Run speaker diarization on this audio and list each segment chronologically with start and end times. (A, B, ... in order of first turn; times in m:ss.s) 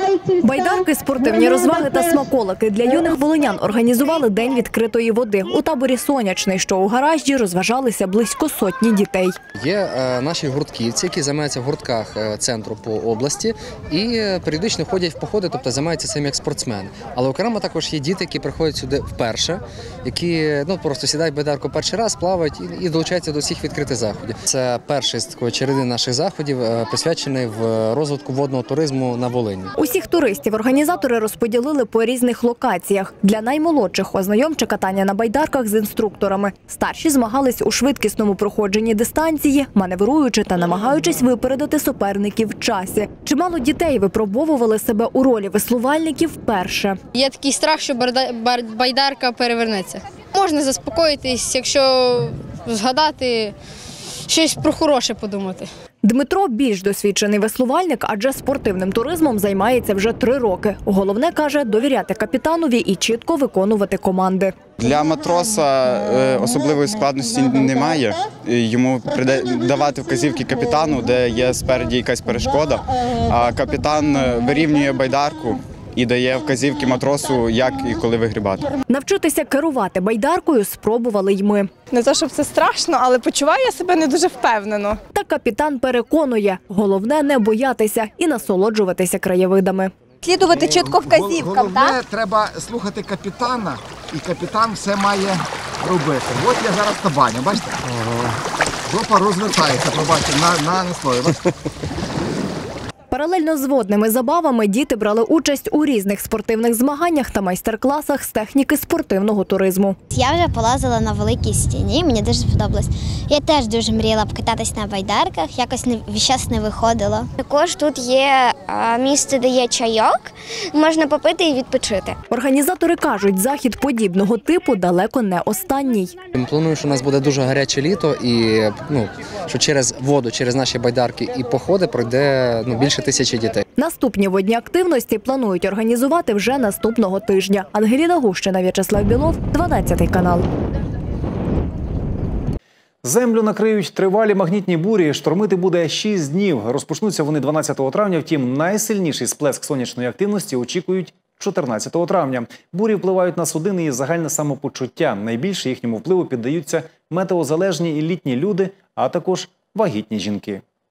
0:00.4-0:09.4 A
0:09.6-0:29.7 B
0:29.8-0:47.0 A
0:47.2-0:53.5 C
0:54.3-0:55.6 C
0:56.0-1:04.6 A
1:04.8-1:18.7 D
1:18.9-1:21.7 A
1:21.9-1:25.0 E
1:25.1-1:29.9 A
1:30.2-1:31.7 E
1:30.7-1:37.8 F
1:38.9-1:41.4 F
1:43.1-1:50.0 A
1:50.1-2:02.2 G
2:02.3-2:06.2 A
2:06.4-2:13.6 B
2:13.8-2:20.4 A
2:23.0-2:40.6 H